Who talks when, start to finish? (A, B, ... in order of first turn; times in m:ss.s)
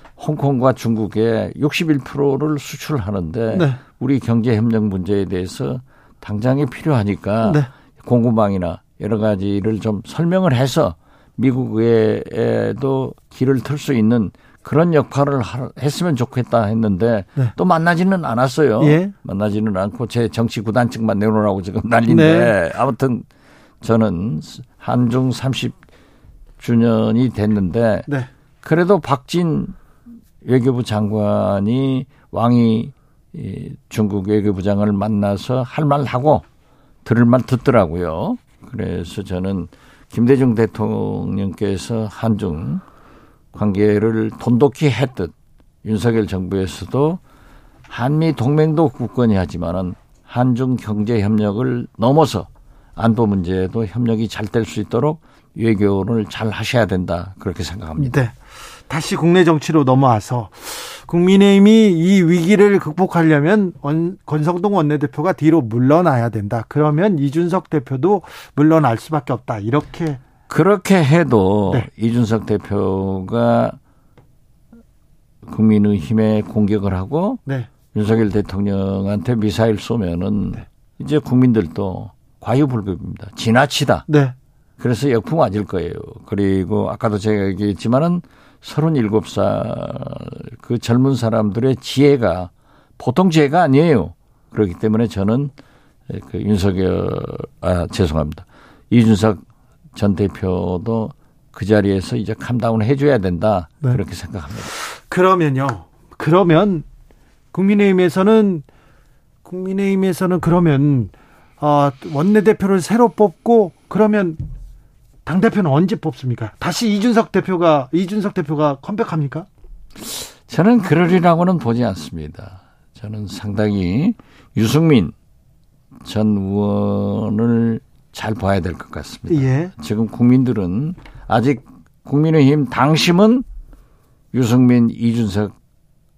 0:00.2-0:23.2 A
0:03.5-0:03.8 B
0:07.4-0:07.7 B
0:18.8-0:19.1 B
0:22.1-0:22.5 B
0:23.8-0:25.8 A
0:26.6-0:28.1 A
0:28.6-0:29.8 A
0:30.4-0:36.4 A
0:37.0-0:42.8 A
0:43.5-0:47.2 A
0:47.9-0:58.1 A
0:58.0-0:58.3 B
0:58.9-1:10.2 B
1:10.5-1:13.8 A
1:15.4-1:17.4 A
1:17.9-1:24.0 A
1:24.1-1:24.3 B
1:24.8-1:35.5 A
1:36.1-1:39.4 A
1:39.9-1:44.7 A
1:44.7-1:46.8 B
1:47.5-1:48.6 B
1:49.4-1:54.4 B
1:55.2-1:59.5 B
2:00.0-2:05.1 A
2:06.0-2:13.4 A
2:09.3-2:09.7 B
2:14.3-2:15.5 A